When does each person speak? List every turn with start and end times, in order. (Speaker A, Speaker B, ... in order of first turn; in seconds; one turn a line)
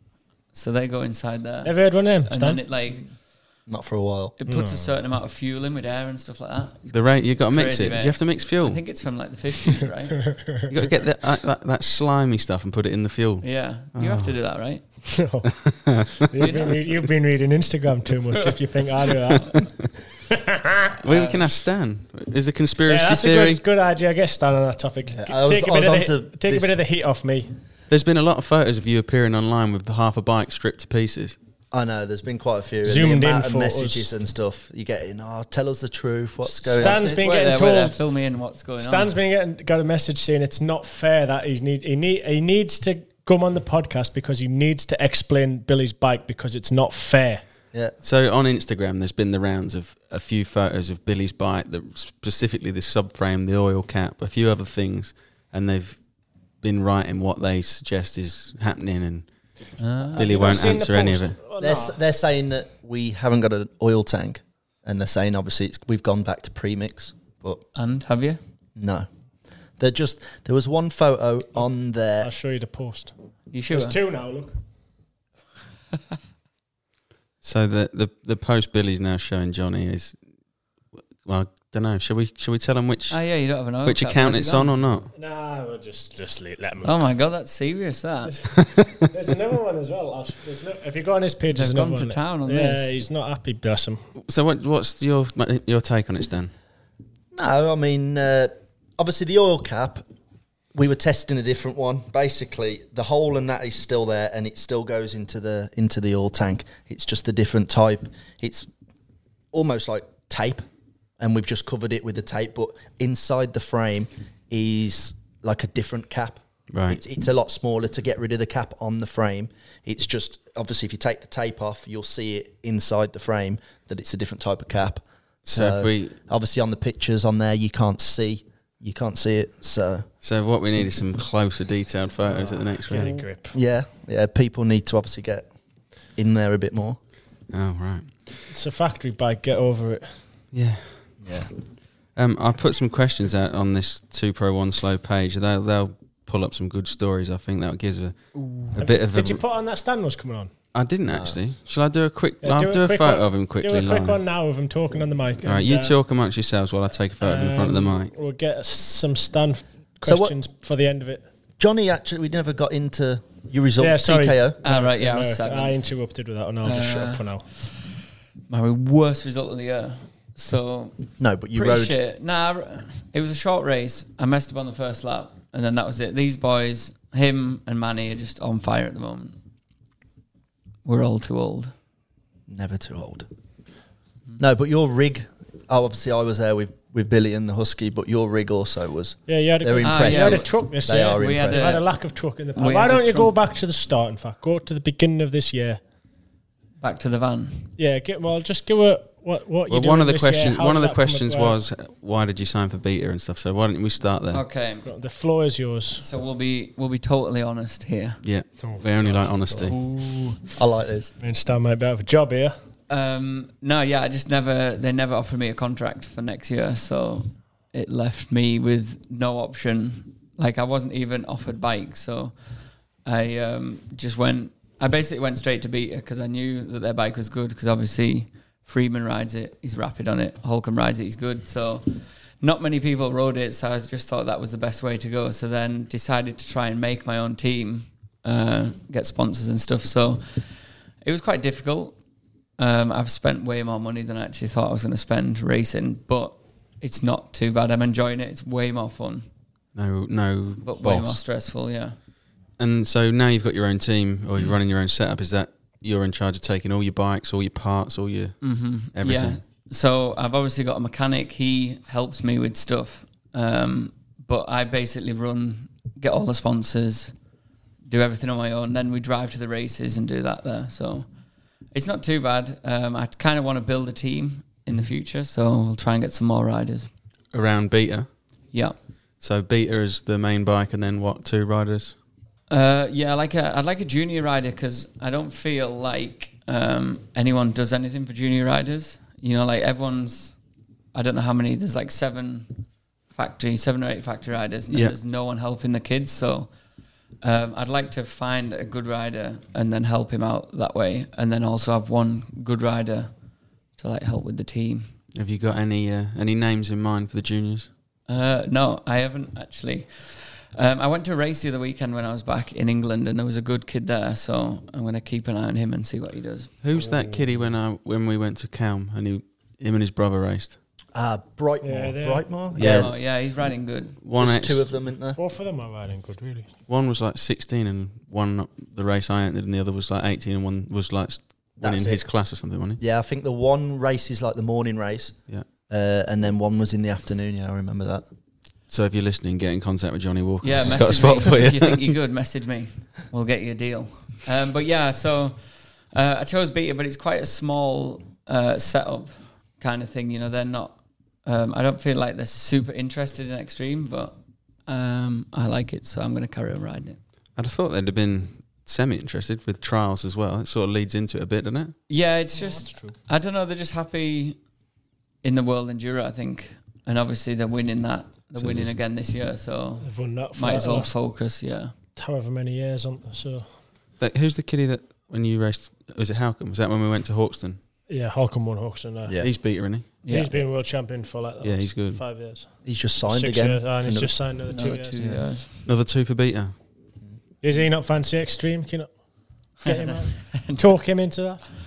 Speaker A: 0.5-3.1
Speaker B: 1.6-2.6
Speaker C: 3.7-4.4
Speaker A: 4.4-10.3
Speaker B: 4.4-4.9
Speaker D: 6.9-8.8
Speaker D: 10.7-14.3
Speaker A: 13.4-14.8
Speaker B: 15.2-15.5
Speaker D: 15.6-16.1
Speaker B: 16.3-19.9
Speaker A: 16.4-16.8
Speaker A: 21.0-21.5
Speaker D: 21.0-23.6
Speaker B: 22.9-27.5
Speaker C: 25.1-26.8
Speaker D: 27.9-31.4
Speaker C: 31.7-37.2
Speaker B: 32.8-34.0
Speaker B: 36.6-38.0
Speaker A: 36.6-39.1
Speaker B: 38.8-47.4
Speaker D: 48.0-56.0
Speaker D: 56.6-59.3
Speaker A: 59.8-60.2
Speaker D: 60.1-61.4
Speaker B: 60.1-62.0
Speaker C: 61.6-67.6
Speaker A: 67.7-68.4
Speaker C: 68.8-69.1
Speaker C: 69.8-72.3
Speaker B: 72.2-73.1
Speaker A: 73.5-74.0
Speaker B: 73.7-74.5
Speaker D: 77.4-80.2
Speaker D: 81.2-83.2
Speaker A: 83.1-84.7
Speaker D: 83.8-85.1
Speaker B: 85.1-86.9
Speaker A: 86.8-88.4
Speaker B: 88.3-94.0
Speaker A: 91.5-92.9
Speaker D: 94.2-96.5
Speaker C: 97.3-100.0
Speaker C: 100.7-108.7
Speaker C: 109.5-110.7
Speaker C: 111.2-130.1
Speaker D: 116.7-117.0
Speaker D: 125.5-126.1
Speaker D: 130.2-133.1
Speaker B: 132.3-133.5
Speaker C: 133.5-135.5
Speaker C: 136.2-137.0
Speaker D: 137.5-138.1
Speaker B: 138.5-140.2
Speaker D: 140.5-141.0
Speaker C: 141.2-141.5
Speaker D: 142.2-148.2
Speaker D: 148.7-149.4
Speaker B: 148.8-150.5
Speaker D: 150.7-154.2
Speaker C: 151.1-151.4
Speaker B: 152.4-155.9
Speaker D: 155.4-158.1
Speaker B: 157.2-161.3
Speaker C: 160.0-160.3
Speaker C: 161.6-164.6
Speaker B: 163.8-167.4
Speaker A: 164.6-165.8
Speaker A: 166.6-167.9
Speaker A: 168.5-171.0
Speaker C: 171.2-171.9
Speaker A: 171.5-179.4
Speaker A: 180.8-181.7
Speaker C: 182.5-183.3
Speaker C: 184.4-191.8
Speaker B: 189.3-195.8
Speaker A: 189.8-190.5
Speaker A: 191.2-191.8
Speaker A: 192.6-193.3
Speaker A: 196.8-197.7
Speaker B: 197.8-201.6
Speaker D: 199.7-204.4
Speaker A: 204.3-204.9
Speaker B: 204.8-206.0
Speaker A: 206.0-208.2
Speaker D: 208.2-209.7
Speaker B: 208.6-210.4
Speaker A: 209.7-210.3
Speaker C: 210.6-211.1
Speaker B: 211.2-212.6
Speaker A: 212.9-222.3
Speaker A: 223.0-242.0
Speaker A: 242.6-249.3
Speaker D: 249.7-251.2
Speaker A: 250.6-251.9
Speaker D: 252.6-259.4
Speaker A: 258.4-267.1
Speaker A: 267.8-271.1
Speaker A: 271.7-276.9
Speaker D: 277.3-278.1
Speaker D: 279.2-281.9
Speaker A: 282.5-290.3
Speaker A: 290.9-292.5
Speaker A: 293.1-296.5
Speaker A: 297.2-303.1
Speaker A: 303.8-304.9
Speaker D: 305.1-307.7
Speaker A: 308.1-316.5
Speaker D: 316.6-320.6
Speaker B: 316.7-317.4
Speaker C: 320.9-322.9
Speaker B: 321.6-322.2
Speaker D: 322.6-322.9
Speaker A: 322.6-324.0
Speaker D: 324.0-324.7
Speaker C: 324.2-325.2
Speaker B: 325.1-326.5
Speaker D: 326.7-332.8
Speaker C: 331.6-332.1
Speaker C: 332.8-338.0
Speaker D: 338.7-341.9
Speaker A: 340.4-357.0
Speaker D: 357.4-361.8
Speaker A: 361.9-364.4
Speaker B: 362.3-362.9
Speaker A: 365.2-371.7
Speaker D: 368.4-368.8
Speaker B: 369.8-370.9
Speaker B: 371.9-373.5
Speaker D: 374.0-377.6
Speaker B: 377.9-379.2
Speaker D: 379.2-379.9
Speaker A: 380.0-380.3
Speaker B: 380.1-385.2
Speaker D: 381.4-382.0
Speaker C: 382.6-384.2
Speaker A: 384.5-385.6
Speaker D: 385.6-386.5
Speaker B: 387.4-388.9
Speaker B: 389.6-391.4
Speaker A: 389.6-390.7